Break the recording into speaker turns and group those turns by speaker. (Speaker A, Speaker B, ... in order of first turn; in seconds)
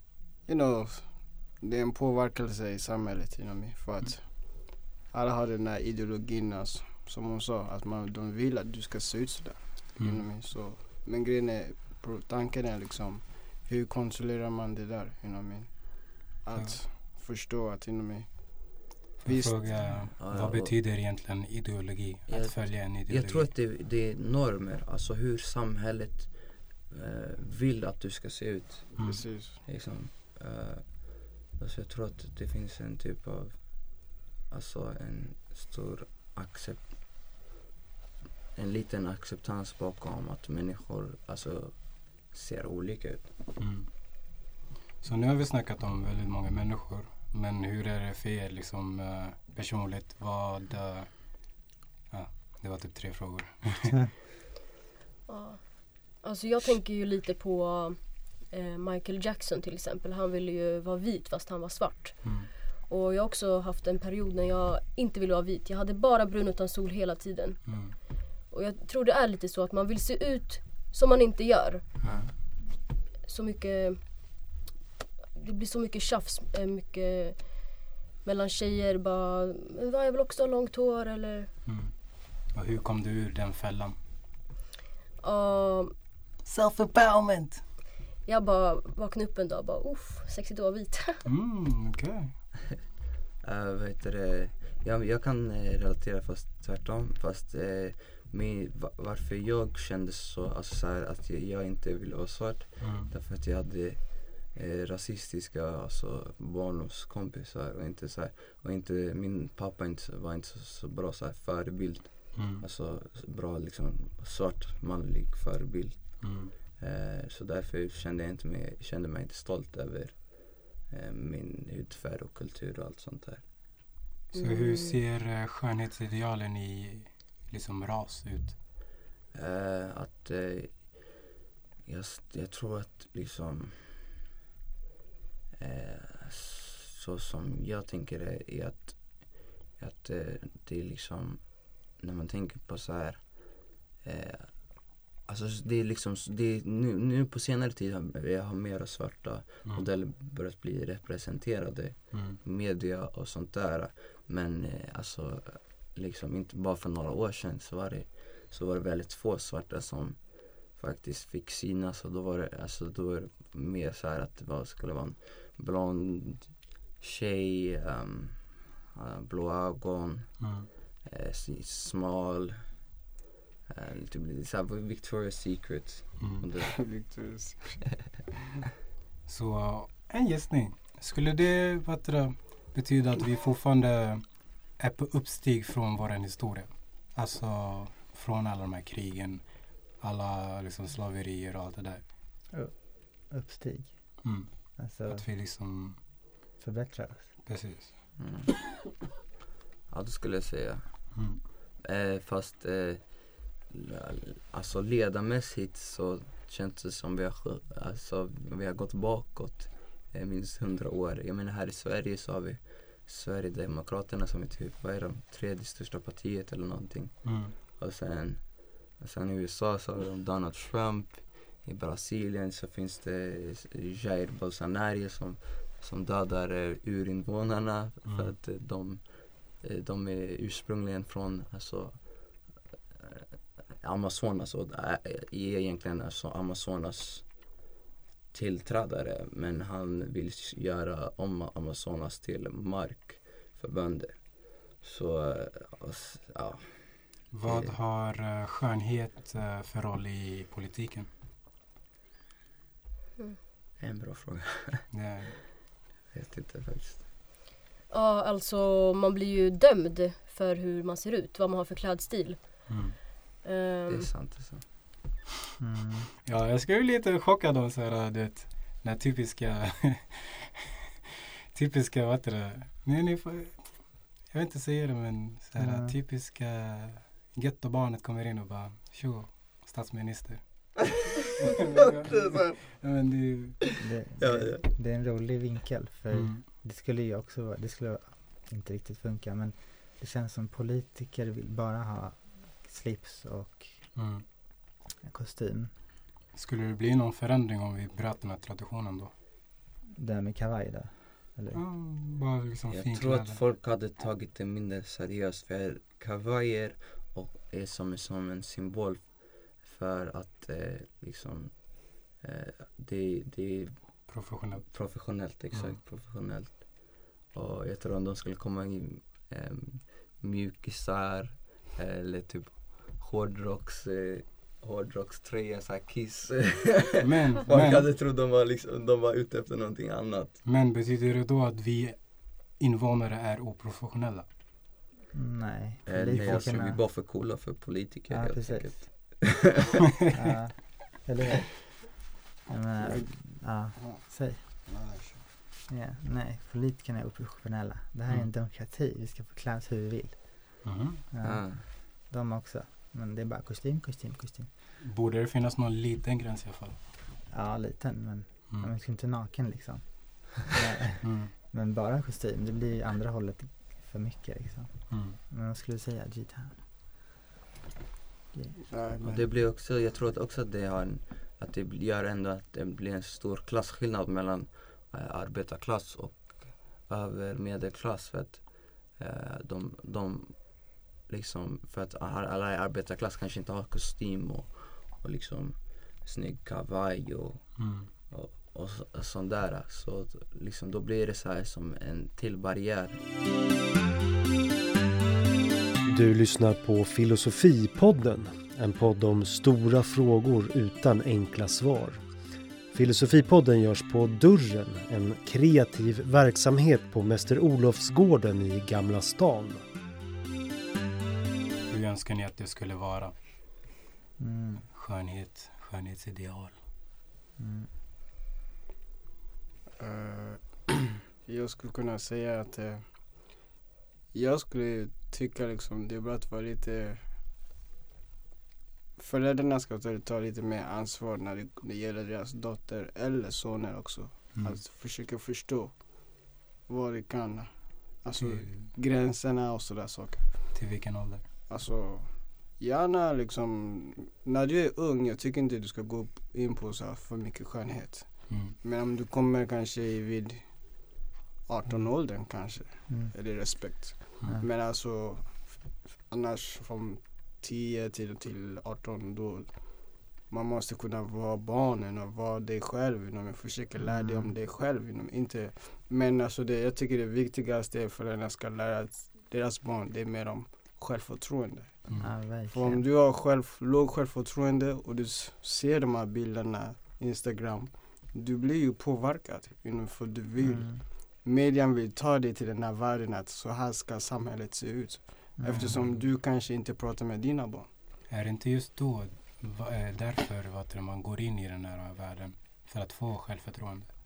Speaker A: 0.4-20.0, 29.0-29.6, 176.5-177.8, 342.8-343.1, 343.7-345.2, 368.7-369.3, 419.8-423.4, 424.1-427.1, 429.0-440.6, 441.5-487.7
Speaker B: 10.0-10.2, 16.5-16.8, 19.2-23.5, 29.0-29.2, 43.6-43.9, 45.0-54.1, 62.2-62.5, 67.7-68.0, 81.7-84.0, 86.4-87.6, 91.2-92.3, 102.8-103.1, 112.3-112.6, 116.2-116.5, 124.3-128.6, 152.1-152.4, 170.4-170.7, 179.2-192.0, 194.2-196.0, 197.4-197.9, 201.2-201.4, 217.2-217.5, 228.0-228.3, 247.3-251.1, 254.9-255.4, 262.7-263.0, 266.2-270.5, 271.5-283.7, 286.1-286.4, 293.9-294.2, 296.3-299.1, 301.5-303.4, 314.1-315.8, 327.0-327.9, 330.4-334.2, 336.1-336.6, 350.6-351.0, 354.8-356.8, 361.0-361.3, 364.9-365.2, 387.6-387.9, 411.7-413.1, 414.7-416.6, 438.2-438.7, 440.5-441.2, 448.3-448.6, 471.9-472.3, 485.5-486.0, 488.1-493.9
Speaker C: 19.6-20.7, 22.3-29.0, 29.6-37.0, 38.5-43.3, 72.0-72.3, 93.4-123.5, 129.3-131.2, 131.8-134.1, 135.6-172.8, 173.7-176.7, 198.2-198.7, 199.9-233.2, 233.8-237.6, 238.3-247.8, 253.8-254.9, 256.1-257.0, 263.9-264.7, 282.1-282.5, 284.2-284.6, 302.7-330.4, 335.9-339.8, 351.2-351.6, 369.0-393.0
Speaker D: 55.3-71.9, 73.2-74.4, 75.3-81.5, 85.2-85.9, 88.2-91.2, 124.3-125.0, 257.9-264.1
Speaker E: 192.5-195.2, 196.6-197.4, 265.6-266.1, 275.6-276.0, 283.8-294.2, 295.0-295.7, 300.0-301.6, 335.1-336.8, 338.1-339.3, 340.1-341.9, 342.5-344.6, 345.7-354.5, 357.3-366.7, 368.3-369.0, 414.2-414.7, 417.4-417.7, 452.9-453.5, 463.8-464.4, 472.0-472.8, 480.4-480.8, 485.4-485.8
Speaker F: 395.8-409.6